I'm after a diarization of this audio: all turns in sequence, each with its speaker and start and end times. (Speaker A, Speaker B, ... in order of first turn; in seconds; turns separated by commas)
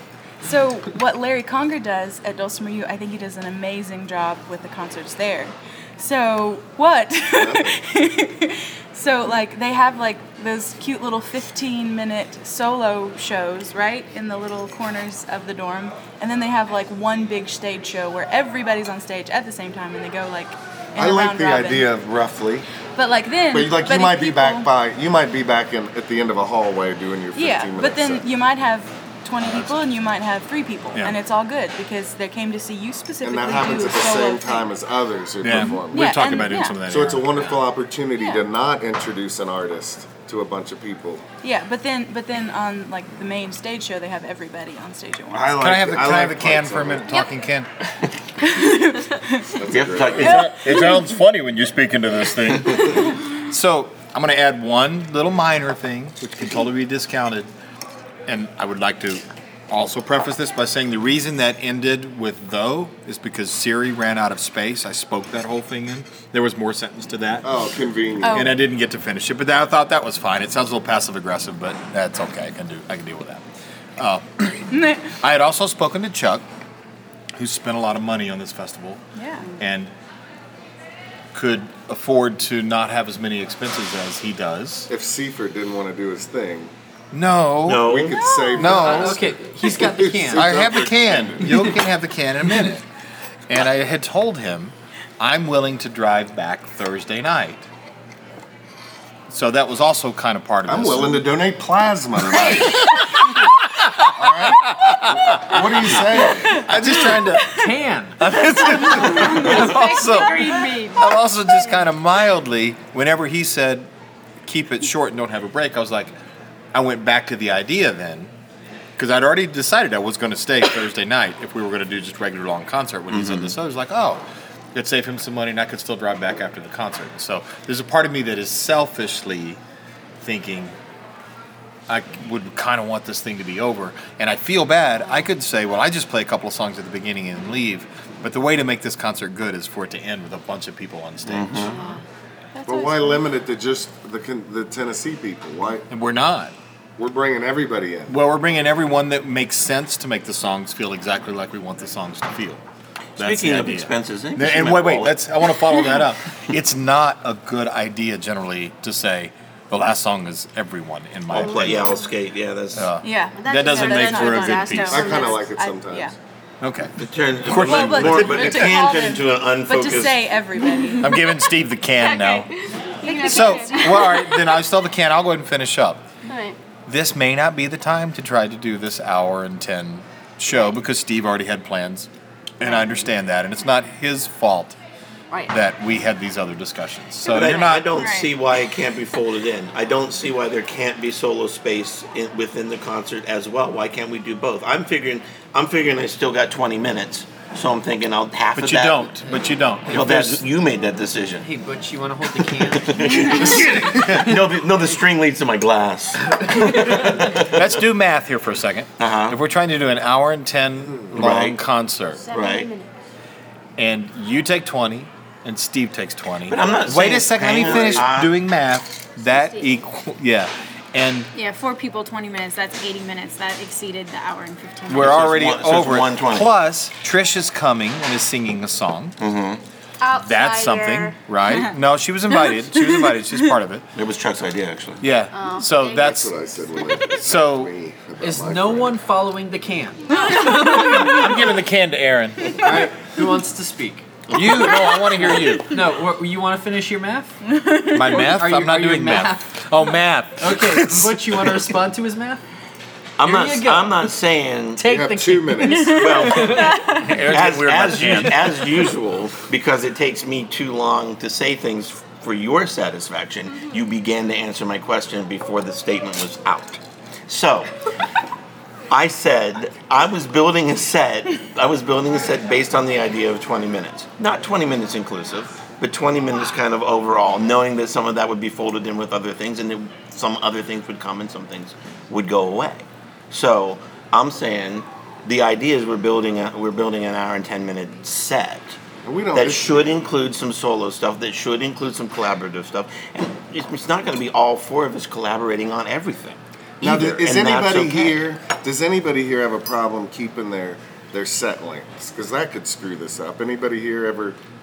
Speaker A: 0.4-21.9, Speaker B: 7.3-7.8, Speaker B: 21.0-22.7, Speaker A: 23.0-24.7, Speaker B: 23.5-28.2, Speaker A: 27.4-34.7, Speaker B: 33.2-41.2, Speaker C: 35.4-37.6, Speaker A: 35.8-36.8, Speaker A: 38.2-38.4, Speaker A: 41.4-45.6, Speaker B: 45.3-47.1, Speaker C: 45.6-47.7, Speaker A: 48.4-49.5, Speaker B: 49.5-50.4, Speaker D: 49.7-50.5, Speaker C: 50.2-57.5, Speaker A: 50.4-51.0, Speaker C: 58.3-67.5, Speaker B: 67.4-68.6, Speaker A: 68.2-68.7, Speaker C: 68.3-73.4, Speaker C: 74.0-76.5, Speaker A: 74.7-75.1, Speaker C: 77.4-79.0, Speaker A: 79.2-79.5, Speaker C: 79.6-79.9, Speaker C: 81.3-84.9, Speaker B: 84.9-86.7, Speaker C: 87.1-87.9, Speaker D: 87.6-88.2, Speaker B: 87.7-91.5, Speaker A: 88.2-88.8, Speaker C: 88.6-89.2, Speaker E: 88.6-90.7, Speaker C: 90.3-92.8, Speaker E: 91.4-91.8, Speaker C: 93.5-97.7, Speaker C: 99.3-101.2, Speaker B: 100.7-102.9, Speaker C: 102.3-107.7, Speaker B: 104.1-106.6, Speaker A: 106.3-107.7, Speaker E: 107.5-108.3, Speaker C: 108.2-113.9, Speaker F: 108.8-111.0, Speaker G: 108.9-110.9, Speaker C: 114.5-116.2, Speaker C: 116.7-118.3, Speaker C: 119.0-124.2, Speaker D: 123.1-123.5, Speaker C: 124.7-129.6, Speaker C: 130.2-130.8, Speaker C: 131.9-141.9, Speaker G: 135.0-135.3, Speaker D: 141.3-141.8, Speaker A: 142.6-143.3, Speaker B: 142.7-145.9, Speaker C: 145.9-146.5, Speaker B: 147.0-148.2, Speaker C: 148.1-152.6, Speaker D: 153.2-155.3, Speaker C: 153.2-162.0, Speaker D: 161.3-163.0, Speaker G: 161.4-162.1, Speaker C: 162.8-165.1, Speaker A: 163.0-166.2, Speaker G: 163.3-165.5, Speaker B: 164.9-166.2, Speaker C: 166.6-168.7, Speaker D: 167.0-170.2, Speaker A: 167.5-171.2, Speaker C: 171.0-172.5, Speaker G: 171.9-174.6, Speaker C: 173.1-176.0, Speaker G: 176.3-176.6, Speaker C: 176.9-184.8, Speaker G: 182.7-183.0, Speaker C: 185.5-187.9, Speaker D: 187.2-199.1, Speaker F: 187.9-188.3, Speaker C: 198.6-200.4, Speaker D: 199.9-201.5, Speaker E: 201.4-203.1, Speaker D: 202.7-207.8, Speaker C: 203.2-204.4, Speaker C: 207.5-212.3, Speaker D: 209.0-209.4, Speaker D: 211.1-211.6, Speaker G: 212.2-212.9, Speaker D: 212.3-212.7, Speaker C: 213.8-221.3, Speaker D: 216.4-218.5, Speaker G: 219.2-219.8, Speaker F: 221.3-225.3, Speaker C: 224.9-229.2, Speaker D: 224.9-226.5, Speaker D: 229.2-229.6, Speaker G: 230.0-231.2, Speaker C: 230.2-233.8, Speaker A: 232.5-233.4, Speaker D: 233.9-235.1, Speaker C: 235.0-236.3, Speaker G: 235.3-236.2, Speaker B: 235.8-239.0, Speaker C: 237.2-237.7, Speaker E: 238.2-241.3, Speaker G: 240.1-241.0, Speaker A: 240.3-241.2, Speaker C: 240.5-242.9, Speaker E: 242.5-247.4, Speaker D: 244.3-244.9, Speaker C: 244.3-245.8, Speaker A: 247.6-248.2, Speaker C: 247.9-251.8, Speaker E: 248.1-252.4, Speaker D: 253.2-254.8, Speaker E: 253.2-254.1, Speaker E: 254.8-257.2, Speaker B: 254.9-256.1, Speaker D: 255.9-267.7, Speaker C: 256.9-258.6, Speaker E: 257.9-258.3, Speaker D: 268.9-288.8, Speaker B: 289.0-290.0, Speaker D: 289.3-298.2, Speaker B: 296.8-304.4